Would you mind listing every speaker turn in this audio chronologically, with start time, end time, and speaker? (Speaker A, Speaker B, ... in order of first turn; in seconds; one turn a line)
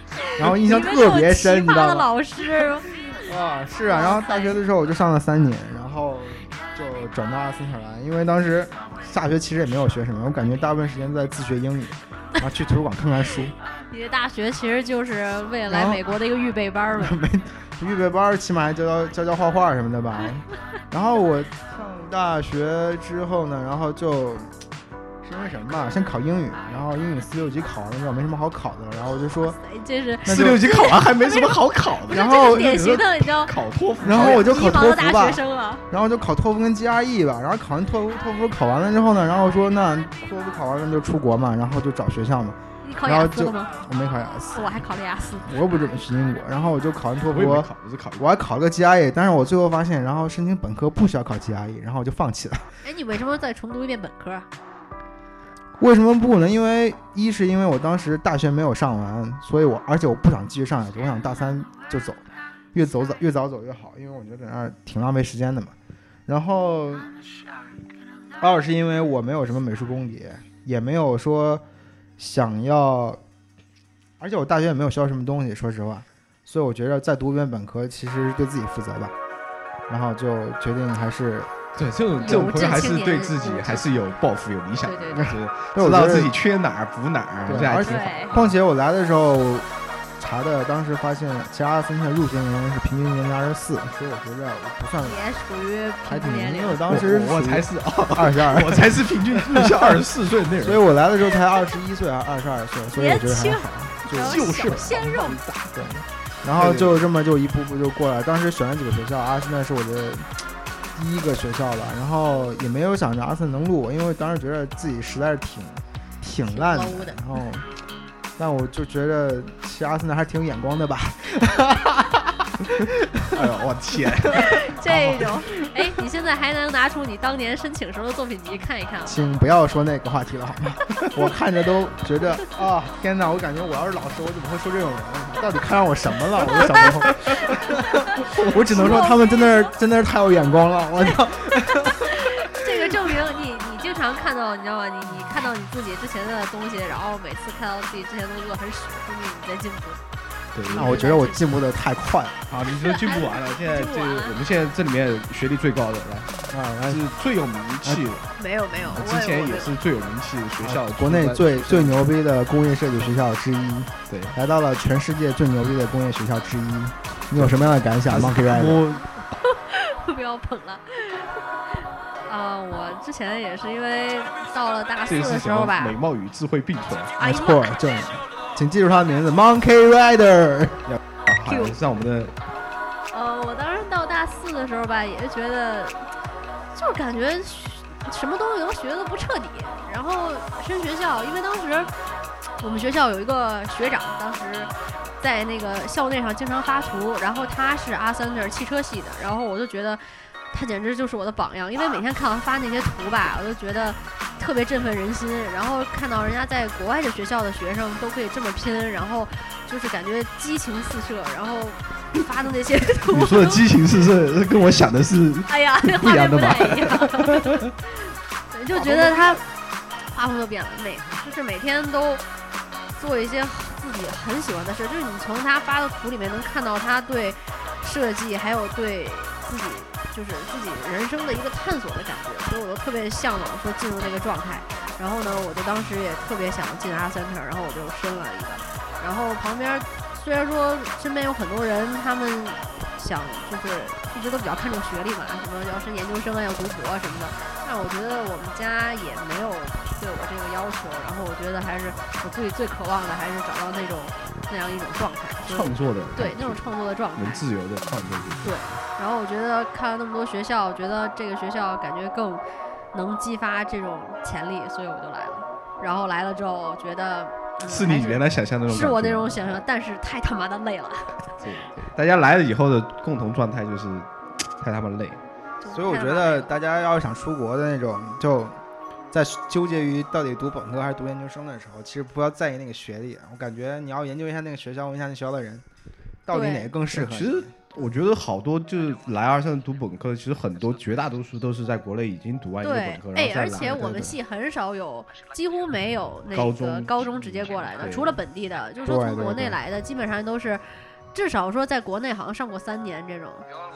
Speaker A: 0.2-2.9
Speaker B: 0.3-2.1
Speaker B: 3.0-13.5
Speaker A: 3.9-4.6
Speaker A: 13.9-17.2
Speaker B: 15.7-16.1
Speaker B: 16.9-24.5
Speaker B: 25.2-29.6
Speaker A: 29.6-31.5
Speaker B: 30.2-30.6
Speaker C: 30.2-34.5
Speaker A: 32.1-33.5
Speaker B: 34.0-44.8
Speaker A: 34.1-35.8
Speaker A: 42.8-43.7
Speaker A: 44.5-45.5
Speaker B: 45.4-52.7
Speaker C: 47.3-48.3
Speaker A: 52.8-54.5
Speaker B: 55.8-65.7
Speaker B: 66.3-67.1
Speaker B: 68.4-71.6
Speaker B: 72.2-73.2
Speaker B: 74.2-79.1
Speaker B: 79.9-81.5
Speaker C: 81.7-88.5
Speaker A: 82.2-84.1
Speaker A: 84.8-85.3
Speaker B: 85.2-86.3
Speaker B: 87.5-95.2
Speaker A: 87.8-88.4
Speaker A: 95.0-96.8
Speaker B: 96.0-100.0
Speaker C: 96.8-100.8
Speaker B: 100.6-104.9
Speaker A: 102.9-105.4
Speaker C: 104.1-105.8
Speaker B: 105.7-110.4
Speaker C: 106.5-107.1
Speaker B: 110.9-117.7
Speaker A: 116.5-117.2
Speaker B: 118.4-123.5
Speaker C: 123.3-125.3
Speaker A: 124.3-129.2
Speaker B: 124.8-125.4
Speaker B: 129.1-142.4
Speaker C: 136.6-137.6
Speaker A: 137.4-139.7
Speaker C: 138.2-138.9
Speaker A: 141.8-150.0
Speaker C: 150.5-151.0
Speaker A: 150.7-151.4
Speaker B: 150.7-152.4
Speaker C: 152.5-162.0
Speaker A: 152.7-154.3
Speaker B: 156.5-157.1
Speaker B: 157.8-158.2
Speaker A: 158.4-159.8
Speaker B: 160.6-168.8
Speaker C: 164.1-164.4
Speaker C: 167.3-169.2
Speaker A: 169.4-176.0
Speaker C: 175.1-177.2
Speaker A: 177.2-177.7
Speaker B: 177.2-180.8
Speaker C: 180.9-182.3
Speaker A: 181.4-181.8
Speaker A: 183.1-186.1
Speaker A: 186.7-191.9
Speaker A: 192.6-213.7
Speaker C: 213.1-217.7
Speaker A: 215.5-219.4
Speaker B: 218.8-219.3
Speaker A: 220.1-222.2
Speaker A: 222.9-257.4
Speaker C: 255.4-258.5
Speaker A: 258.4-271.4
Speaker C: 267.6-269.6
Speaker C: 271.4-275.2
Speaker A: 275.6-276.5
Speaker B: 275.7-278.6
Speaker B: 279.1-285.6
Speaker B: 286.2-287.5
Speaker A: 286.3-286.7
Speaker C: 286.9-294.1
Speaker A: 292.6-303.5
Speaker C: 296.3-298.2
Speaker B: 298.8-299.6